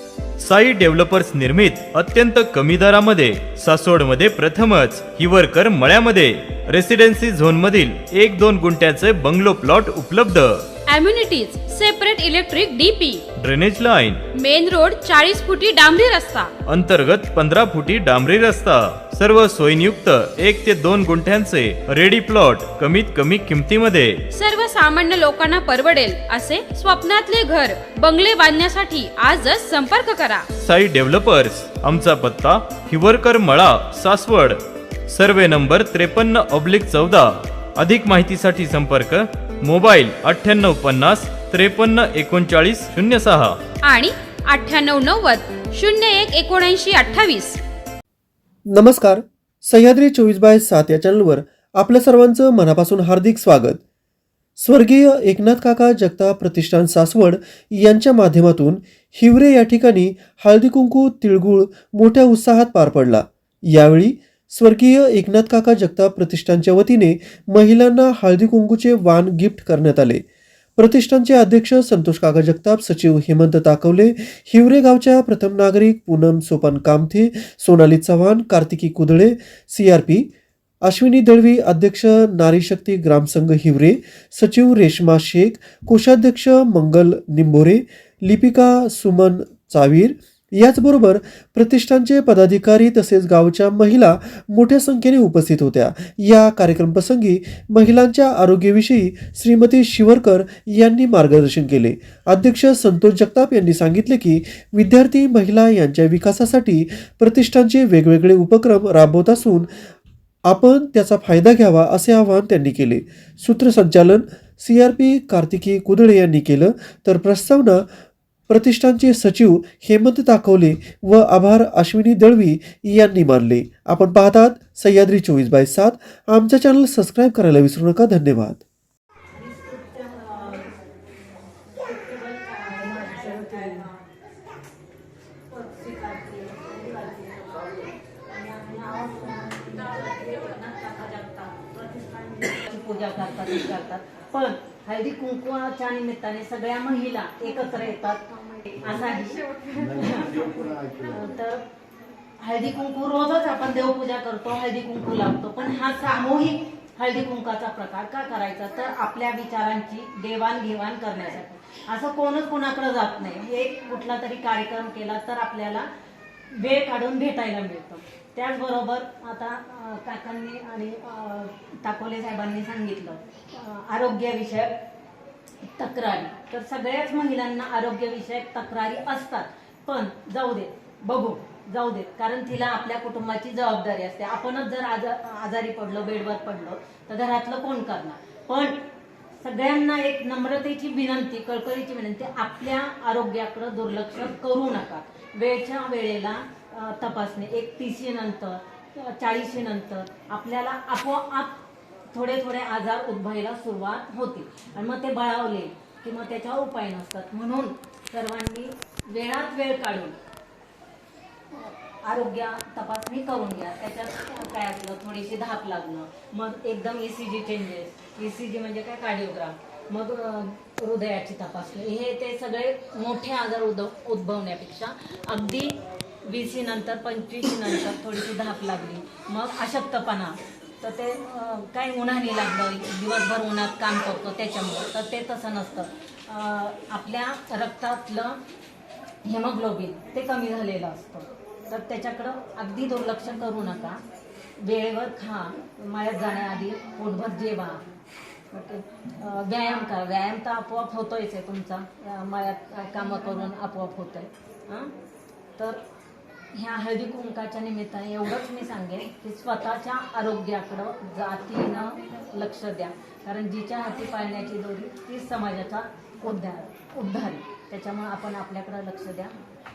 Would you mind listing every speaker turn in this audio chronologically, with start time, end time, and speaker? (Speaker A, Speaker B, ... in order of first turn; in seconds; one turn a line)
Speaker A: 0.4-10.7
Speaker B: 10.9-13.2
Speaker A: 13.4-14.2
Speaker B: 14.3-16.5
Speaker A: 16.7-24.2
Speaker B: 24.3-30.5
Speaker A: 30.6-43.6
Speaker B: 43.8-47.6
Speaker C: 48.7-53.8
Speaker C: 54.6-70.2
Speaker C: 70.8-80.3
Speaker C: 80.8-109.8
Speaker C: 110.5-117.8
Speaker C: 118.5-128.6
Speaker D: 129.3-130.8
Speaker D: 131.6-134.1
Speaker D: 135.5-151.7
Speaker D: 152.4-165.9
Speaker D: 166.5-174.8
Speaker D: 175.7-188.8
Speaker D: 189.4-210.2
Speaker D: 211.5-238.4
Speaker D: 239.2-244.0
Speaker D: 244.6-247.8
Speaker D: 248.5-254.9
Speaker D: 255.6-255.8
Speaker D: 256.5-269.4